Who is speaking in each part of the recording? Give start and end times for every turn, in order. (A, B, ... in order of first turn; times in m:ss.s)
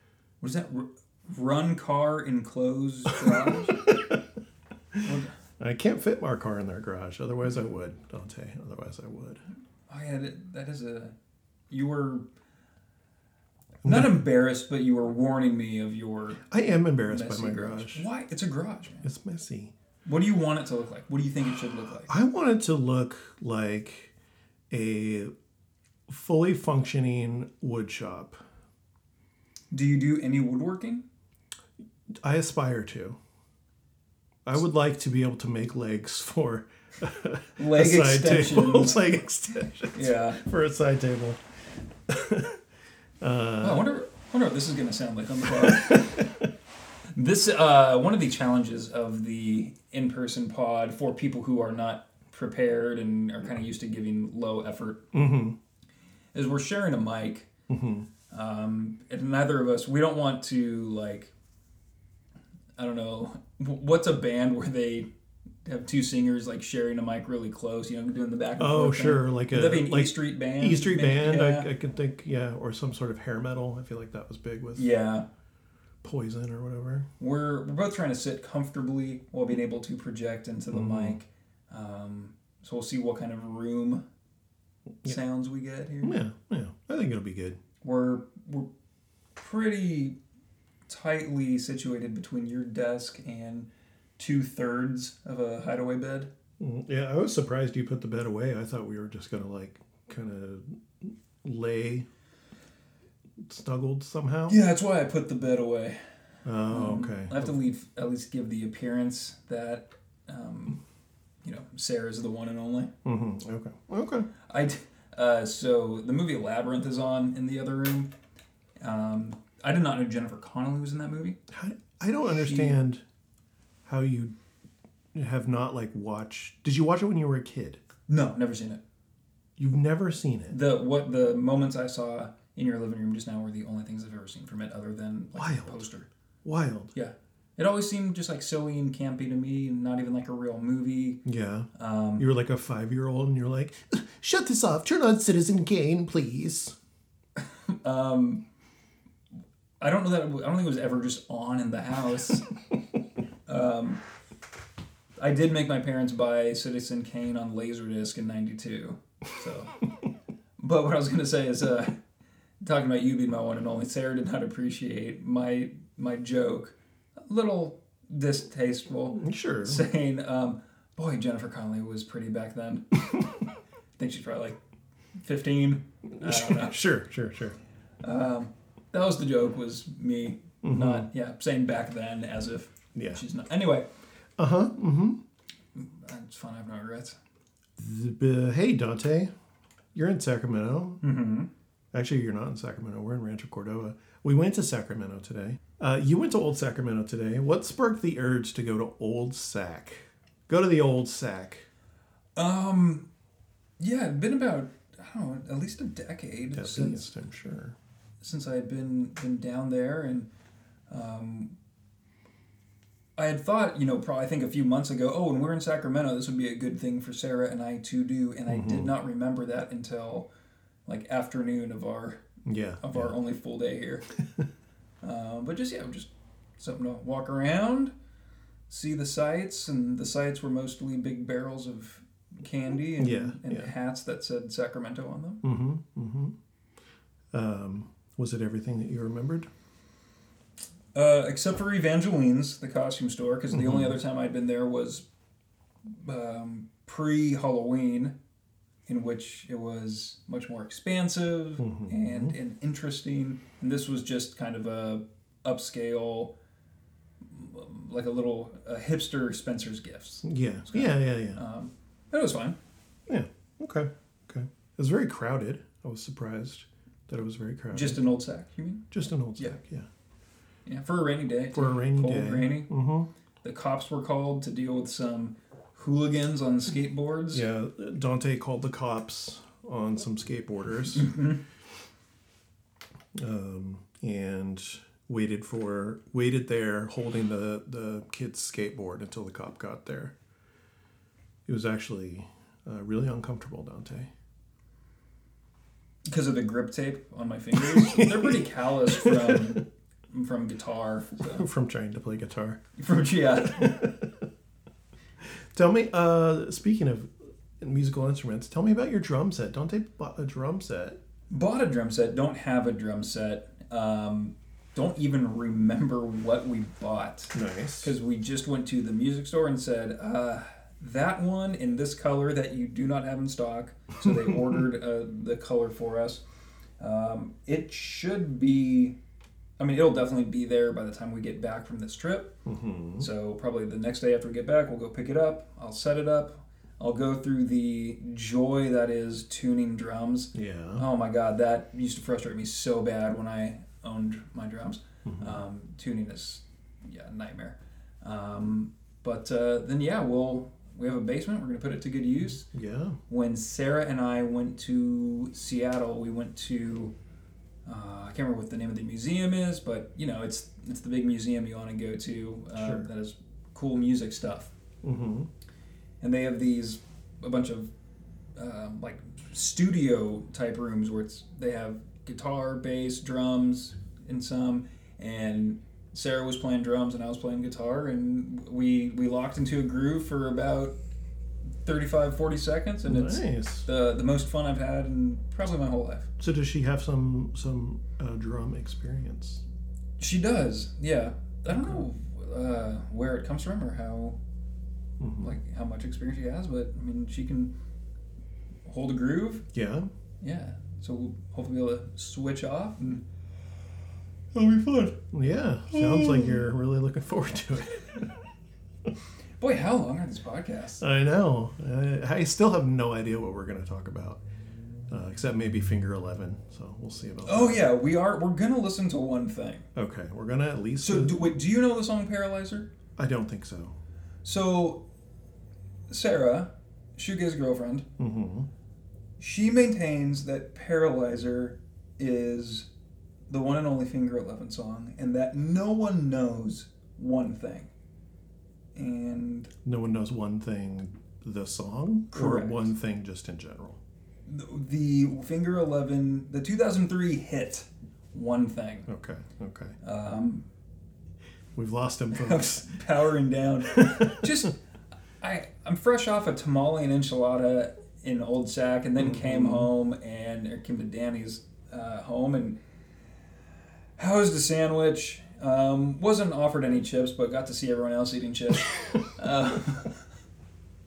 0:00.4-0:03.8 A
0:03.3-0:04.2 B
0:05.0-0:05.3 A
0:05.6-0:09.4 B
0:09.9-0:11.1 A
0:11.7-0:12.2 A
0:13.8-0:14.2 B
0:13.8-0:16.4 A
0:16.5-0:18.1 B
0:17.1-0:19.0 A
0:19.0-0:19.7 B
0:20.0-0:22.1 A
0:22.1-0:24.1 B
0:24.7-0:25.3 B
0:26.1-0:28.4 B
0:29.7-0:31.0 A
0:32.2-0:33.2 B
0:34.4-0:41.4 B
0:37.6-0:39.0 A
0:39.9-0:40.4 A
0:42.1-0:42.6 B
0:43.2-0:43.9 B
0:43.6-0:46.2 A
0:45.5-0:46.4 B
0:47.1-0:55.1 A
0:55.1-0:55.6 B
0:56.3-0:57.5 A
0:57.7-0:58.1 B
0:58.3-1:01.3 A
1:02.8-1:05.1 A
1:05.6-1:11.7 A
1:08.6-1:14.9 B
1:14.8-1:15.2 A
1:16.0-1:17.1 B
1:17.2-1:24.0 A
1:20.7-1:21.2 B
1:25.0-1:26.2 A
1:26.0-1:27.6 B
1:27.8-1:28.7 A
1:29.4-1:30.2 A
1:30.9-1:36.3 A
1:36.6-1:42.1 B
1:43.4-1:44.6 B
1:44.5-1:46.0 A
1:46.4-1:47.5 B
1:46.7-1:50.8 A
1:51.4-1:52.9 A
1:53.0-1:54.3 B
1:54.5-1:58.1 A
1:58.8-2:01.4 A
2:01.5-2:03.0 B
2:02.2-2:02.8 A
2:03.8-2:04.3 B
2:05.1-2:07.8 B
2:08.1-2:08.8 A
2:09.6-2:10.6 B
2:10.5-2:16.1 A
2:15.3-2:15.9 B
2:16.4-2:16.9 B
2:16.9-2:21.2 A
2:21.2-2:26.7 B
2:21.7-2:22.3 A
2:27.5-2:28.4 A
2:29.8-2:32.5 A
2:33.5-2:34.0 A
2:35.2-2:39.7 A
2:40.6-2:42.0 A
2:42.6-2:52.8 A
2:49.2-2:49.8 B
2:54.0-2:54.6 A
2:55.2-2:56.8 A
2:56.2-2:57.6 B
2:58.0-3:03.9 A
3:00.6-3:01.1 B
3:02.9-3:03.2 B
3:04.4-3:05.2 B
3:05.7-3:07.2 A
3:07.8-3:09.3 B
3:09.9-3:11.0 B
3:11.0-3:11.5 A
3:11.9-3:21.7 B
3:22.4-3:23.1 A
3:23.8-3:27.1 A
3:26.5-3:27.8 B
3:28.2-3:30.3 A
3:30.9-3:31.5 A
3:33.2-3:40.3 A
3:38.5-3:38.9 B
3:40.8-3:42.2 A
3:42.4-3:43.1 B
3:42.8-3:44.1 A
3:45.0-3:47.9 A
3:48.7-3:55.4 A
3:53.0-3:53.7 B
3:55.4-3:56.4 B
3:57.3-3:59.5 B
4:00.9-4:05.0 A
4:03.5-4:04.0 B
4:05.9-4:08.2 A
4:08.9-4:16.3 A
4:11.6-4:12.4 B
4:17.3-4:22.6 A
4:20.2-4:21.4 B
4:23.1-4:28.0 B
4:27.7-4:29.6 A
4:28.9-4:29.9 B
4:30.6-4:32.7 A
4:31.5-4:33.1 B
4:33.4-4:37.4 A
4:37.3-4:41.1 B
4:40.9-4:41.4 A
4:43.1-4:50.1 B
4:51.4-4:54.1 B
4:56.0-5:01.4 A
4:57.6-4:59.6 B
5:01.3-5:02.6 B
5:02.8-5:03.9 A
5:03.6-5:04.0 B
5:05.5-5:11.0 B
5:11.3-5:26.2 A
5:17.3-5:17.9 B
5:26.8-5:29.0 A
5:29.6-5:32.4 A
5:32.4-5:33.1 B
5:33.0-5:52.5 A
5:40.3-5:40.8 B
5:45.0-5:45.4 B
5:52.4-5:53.0 B
5:53.1-5:56.9 A
5:57.6-6:04.5 A
6:02.6-6:02.9 B
6:04.8-6:05.3 B
6:06.0-6:07.7 A
6:08.4-6:20.8 A
6:21.6-6:26.1 A
6:22.8-6:23.7 B
6:26.2-6:29.4 B
6:30.0-6:34.2 A
6:31.5-6:31.8 B
6:35.0-6:35.4 B
6:35.2-6:37.5 A
6:38.6-6:39.4 A
6:39.5-6:39.9 B
6:40.2-6:43.0 A
6:44.3-6:45.0 A
6:45.1-6:48.1 B
6:45.7-6:46.3 A
6:49.4-6:50.8 A
6:50.8-6:54.2 B
6:54.9-6:57.7 B
6:57.2-6:59.6 A
6:59.7-7:01.3 B
7:00.8-7:02.7 A
7:03.0-7:03.8 B
7:04.2-7:04.8 A
7:05.9-7:07.9 A
7:08.0-7:08.5 B
7:09.2-7:12.7 A
7:13.3-7:17.7 A
7:18.7-7:19.5 A
7:19.6-7:23.8 B
7:22.1-7:22.7 A
7:24.2-7:28.9 A
7:28.9-7:29.8 B
7:29.8-7:30.5 A
7:31.5-7:32.7 B
7:32.1-7:34.6 A
7:33.8-7:34.3 B
7:35.2-7:42.6 A
7:39.0-7:39.7 B
7:44.0-7:50.0 A